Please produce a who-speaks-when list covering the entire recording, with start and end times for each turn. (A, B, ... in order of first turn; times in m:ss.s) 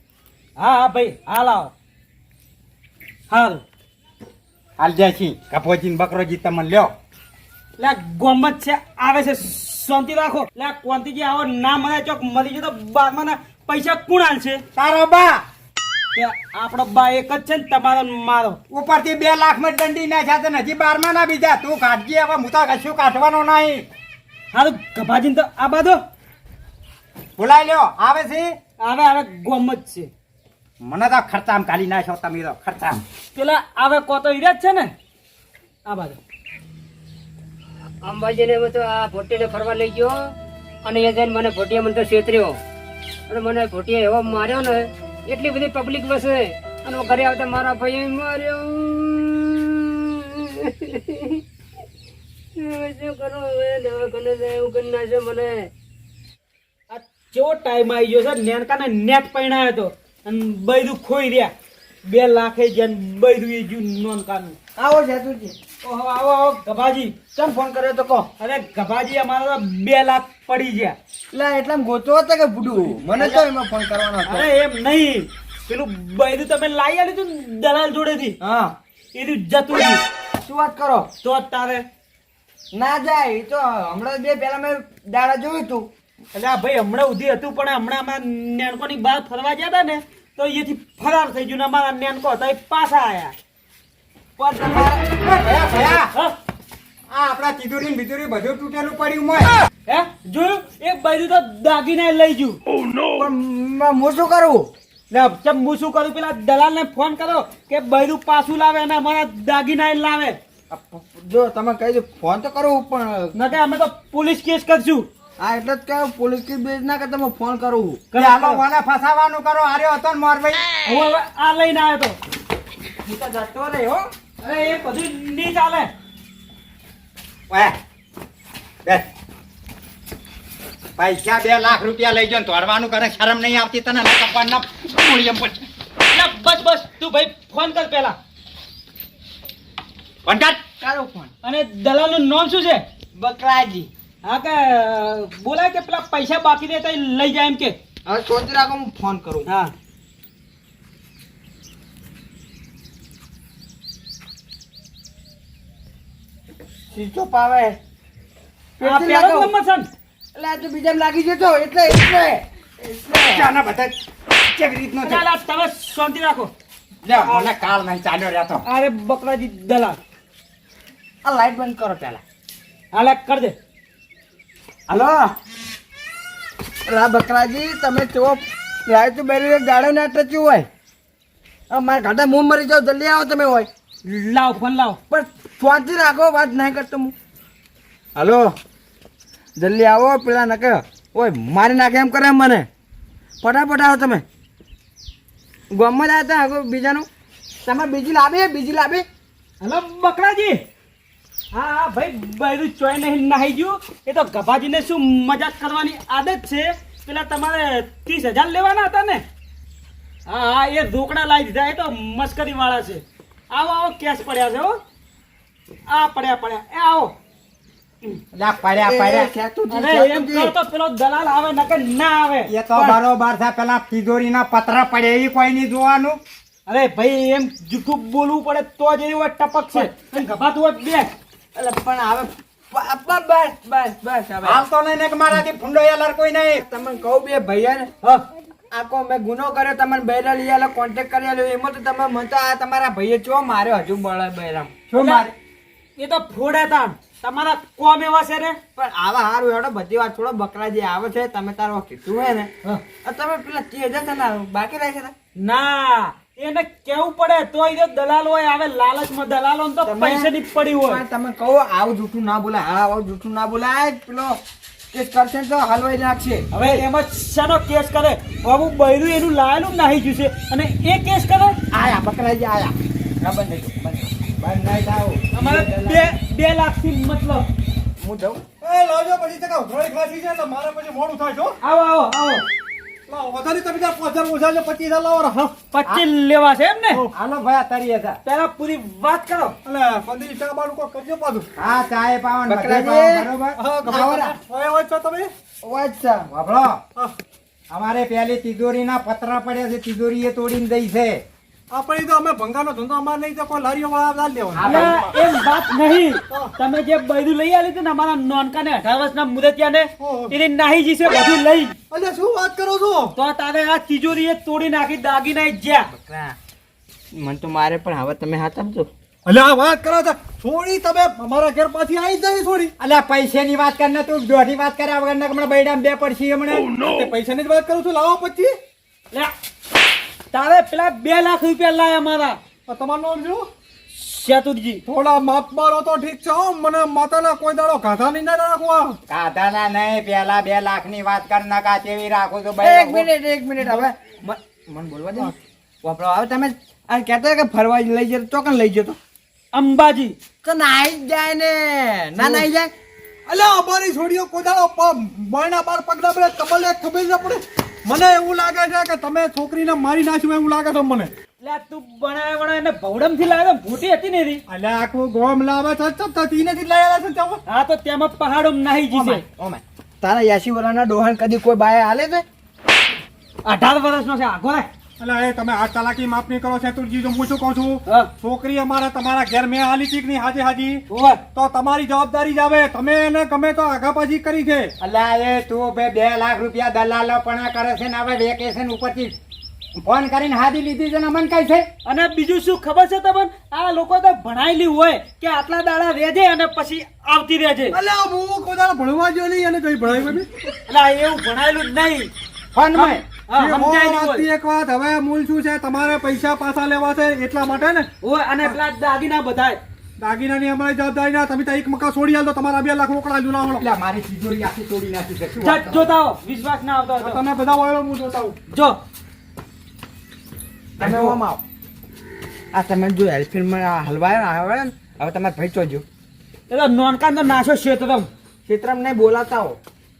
0:00.6-0:01.7 A
0:03.3-0:03.6 A
0:04.8-0:06.9 B
0:07.8-0:14.6 A
0:14.8-0:15.4 B
0:16.1-0:18.6 A
0:18.7-0:23.8 B
0:24.5-0:26.0 A
0:27.4-0:28.5 B
0:28.8-0:30.1 A
0:30.8-0:33.0 B
0:33.3-0:34.9 A
0:35.8-0:36.2 A
0:38.0-0:40.2 C
0:40.8-0:42.6 C
0:43.3-0:51.4 C
0:52.6-0:55.7 C
0:56.9-1:01.5 A
1:02.0-1:04.6 A
1:04.8-1:05.5 D
1:05.8-1:07.2 A
1:07.3-1:08.3 D
1:08.4-1:11.0 A
1:11.3-1:14.5 D
1:13.1-1:13.4 A
1:14.2-1:18.4 A
1:18.4-1:18.7 D
1:19.1-1:20.0 A
1:20.4-1:21.1 D
1:21.2-1:21.8 A
1:22.7-1:25.9 D
1:26.3-1:33.3 A
1:34.4-1:35.1 D
1:34.8-1:36.1 B
1:36.1-1:36.4 A
1:37.1-1:39.5 B
1:39.8-1:42.6 A
1:43.1-1:44.7 D
1:45.1-1:50.4 A
1:50.7-1:53.3 D
1:53.3-1:55.1 A
1:55.4-1:58.0 D
1:58.1-1:58.6 A
1:58.1-2:00.7 B
2:00.8-2:02.2 A
2:03.0-2:04.1 D
2:04.4-2:05.9 A
2:07.5-2:07.7 B
2:11.0-2:15.6 B
2:16.1-2:18.2 A
2:20.2-2:20.6 B
2:20.8-2:21.3 D
2:21.4-2:22.8 A
2:23.1-2:23.9 D
2:24.2-2:27.8 A
2:28.0-2:29.5 D
2:29.4-2:29.7 A
2:36.9-2:37.8 D
2:38.8-2:39.5 D
2:38.8-2:39.9 A
2:40.3-2:43.5 D
2:43.2-2:45.2 B
2:45.0-2:46.5 A
2:47.0-2:48.6 B
2:47.1-2:47.5 A
2:48.6-2:50.0 A
2:51.2-2:52.2 D
2:52.9-2:53.6 A
2:54.9-2:55.3 D
2:56.9-3:00.7 D
3:01.7-3:03.7 D
3:04.0-3:05.0 A
3:05.1-3:07.1 D
3:08.2-3:08.5 D
3:09.6-3:12.7 D
3:13.4-3:14.2 D
3:15.7-3:17.1 D
3:17.6-3:19.0 D
3:19.6-3:20.6 A
3:21.5-3:29.2 A
3:30.2-3:34.8 A
3:35.9-3:37.1 A
3:38.3-3:39.3 B
3:38.8-3:40.5 D
3:39.7-3:42.5 A
3:42.5-3:46.2 B
3:46.6-3:51.1 A
3:51.5-3:54.6 D
3:54.4-3:56.6 B
3:56.6-3:57.9 D
3:58.7-4:04.7 D
4:04.9-4:05.3 B
4:04.9-4:05.3 A
4:06.0-4:08.6 A
4:08.8-4:12.5 D
4:13.0-4:15.1 D
4:15.4-4:21.0 A
4:19.8-4:24.4 D
4:24.9-4:26.8 D
4:26.5-4:31.6 A
4:31.7-4:34.1 D
4:31.7-4:32.0 B
4:34.2-4:36.1 B
4:35.3-4:37.5 A
4:38.0-4:38.4 D
4:38.6-4:41.6 E
4:41.6-4:42.4 A
4:43.1-4:45.6 E
4:45.7-4:47.0 A
4:47.1-4:48.2 B
4:48.2-4:49.6 A
4:49.6-4:51.5 E
4:51.6-4:54.3 B
4:52.5-4:53.3 D
4:53.6-4:55.3 E
4:55.6-4:56.3 D
4:56.3-4:56.8 B
4:57.7-5:01.2 B
5:01.7-5:05.1 E
5:04.6-5:05.0 B
5:04.6-5:11.8 A
5:10.0-5:10.3 E
5:11.9-5:13.1 E
5:13.2-5:15.9 A
5:16.0-5:16.4 D
5:17.1-5:18.9 D
5:19.2-5:22.7 E
5:22.8-5:26.7 B
5:26.7-5:28.5 E
5:30.3-5:32.4 A
5:32.7-5:33.5 E
5:33.9-5:34.8 A
5:34.8-5:39.0 E
5:39.1-5:43.1 B
5:42.6-5:49.0 D
5:49.5-5:50.1 A
5:50.4-5:52.7 D
5:52.2-5:52.4 E
5:53.3-6:01.1 E
6:01.4-6:04.4 A
6:04.5-6:07.4 E
6:07.4-6:09.2 A
6:08.9-6:09.2 E
6:09.3-6:12.2 D
6:13.4-6:14.7 A
6:15.0-6:20.8 E
6:20.9-6:21.2 A
6:21.3-6:24.7 E
6:24.8-6:29.1 B
6:29.8-6:31.7 B
6:31.8-6:37.8 A
6:37.7-6:40.3 E
6:40.7-6:42.1 A
6:42.5-6:43.0 B
6:42.8-6:44.3 A
6:43.3-6:47.9 E
6:48.0-6:49.6 A
6:50.0-6:53.6 E
6:53.6-6:55.9 B
6:55.4-6:57.2 A
6:57.0-6:58.4 E
6:58.5-6:58.8 A
7:00.8-7:01.2 B
7:00.8-7:01.4 D
7:02.5-7:05.8 D
7:06.5-7:08.1 A
7:08.4-7:09.6 D